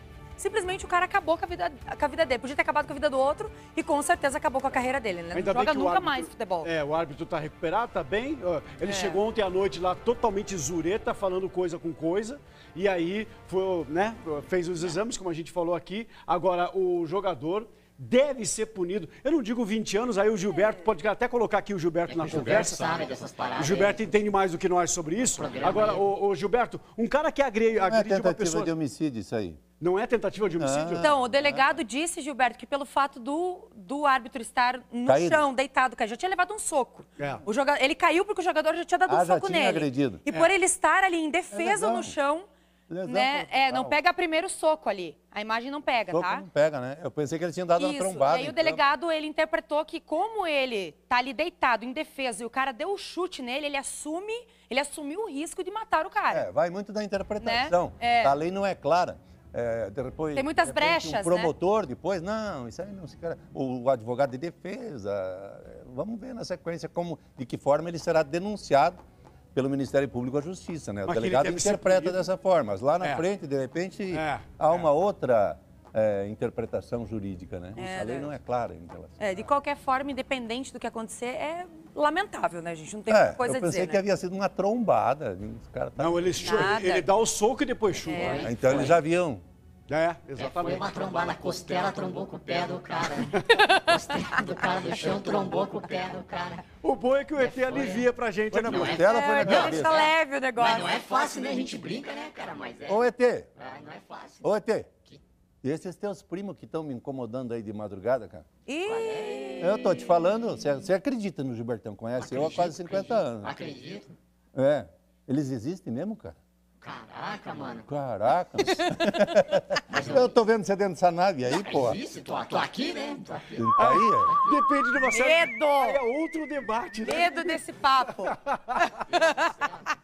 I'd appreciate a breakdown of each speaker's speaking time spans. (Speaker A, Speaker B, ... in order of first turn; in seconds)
Speaker A: 0.4-6.7, 8.8-9.2, 31.0-42.5, 43.0-46.5, 47.8-56.5, 57.4-58.4, 60.4-61.5, 77.8-78.3, 79.2-84.0, 86.4-87.1, 88.0-88.5, 93.3-95.0, 99.0-101.0, 108.7-110.0, 118.9-119.5, 125.0-126.0, 127.0-129.9
Speaker B: 5.3-28.7, 29.8-31.7, 37.2-37.4, 71.1-72.2, 73.0-73.3, 74.1-74.9, 86.0-88.5, 89.9-91.0, 96.8-99.7, 123.8-129.0
Speaker C: 22.1-24.0, 25.4-26.0, 88.2-89.0, 90.4-96.6, 97.4-98.0, 98.7-103.0, 103.6-104.4, 108.9-109.5, 112.2-114.1, 116.8-117.9, 119.9-120.3, 121.5-123.7
Speaker D: 27.8-29.6, 30.6-31.2, 35.1-35.5, 39.1-40.2, 41.5-42.1, 42.9-44.0, 46.1-48.8, 56.3-69.0, 69.5-79.3, 83.1-86.7, 88.4-89.4, 98.5-100.0, 102.9-103.5, 104.4-105.0, 105.6-108.5, 109.6-113.5, 114.5-116.4, 117.9-122.0, 123.5-124.4